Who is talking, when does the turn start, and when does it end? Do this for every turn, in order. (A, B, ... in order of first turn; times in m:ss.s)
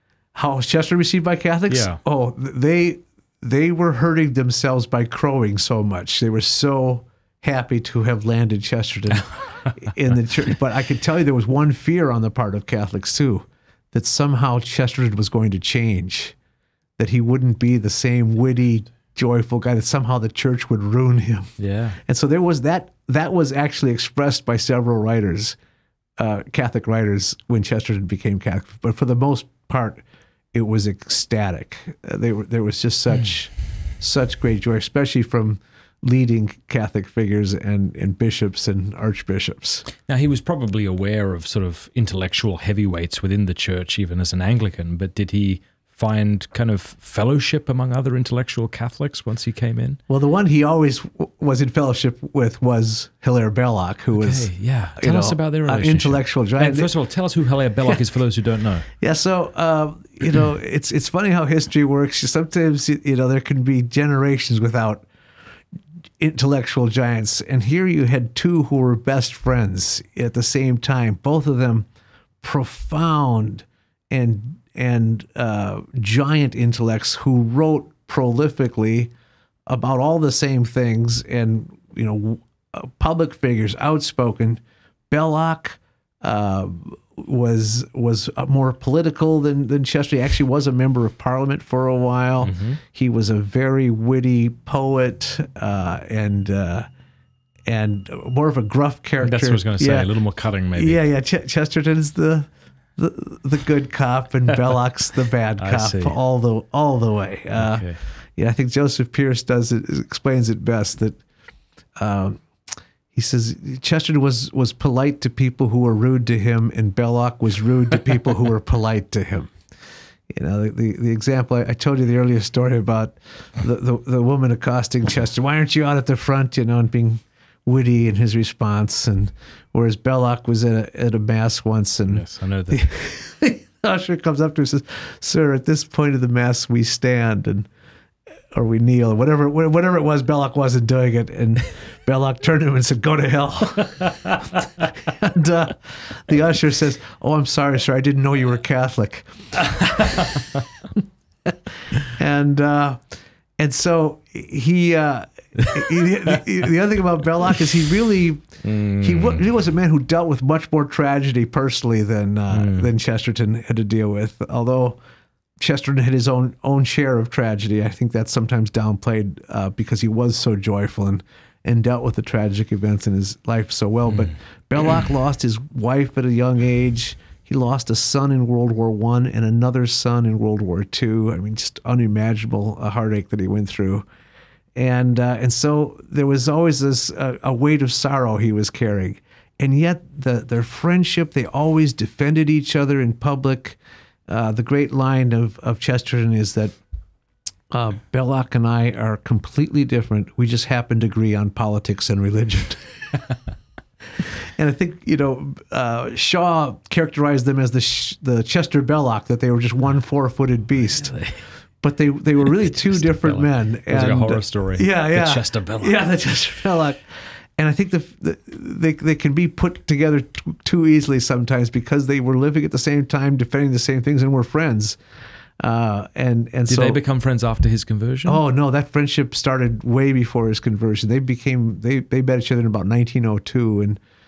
0:00.3-0:16.4 A
0:01.7-0:02.0 B
0:17.0-0:25.6 A
0:21.6-0:22.0 B
0:26.2-0:39.9 A
0:40.0-0:50.0 B
0:50.1-0:56.9 A
0:54.2-0:58.9 B
0:59.0-1:05.1 A
1:06.2-1:11.9 A
1:12.4-1:19.1 A
1:19.7-1:36.9 A
1:32.4-1:32.8 B
1:37.7-1:40.1 A
1:39.2-1:41.0 B
1:40.7-1:51.2 A
1:45.6-1:46.2 B
1:47.5-1:48.0 B
1:52.0-1:52.4 A
1:53.1-1:59.5 A
2:00.3-2:17.7 A
2:12.1-2:12.9 B
2:18.5-2:30.4 A
2:32.1-2:33.0 A
2:33.6-2:45.0 A
2:38.6-2:39.4 B
2:42.5-2:42.9 B
2:45.6-3:04.1 A
3:04.8-3:16.7 A
3:17.7-3:22.9 A
3:24.2-3:31.2 A
3:30.8-3:31.4 B
3:31.8-3:37.0 A
3:32.5-3:36.0 B
3:37.6-3:45.0 A
3:45.6-3:47.0 A
3:46.7-3:48.4 B
3:48.2-3:54.0 A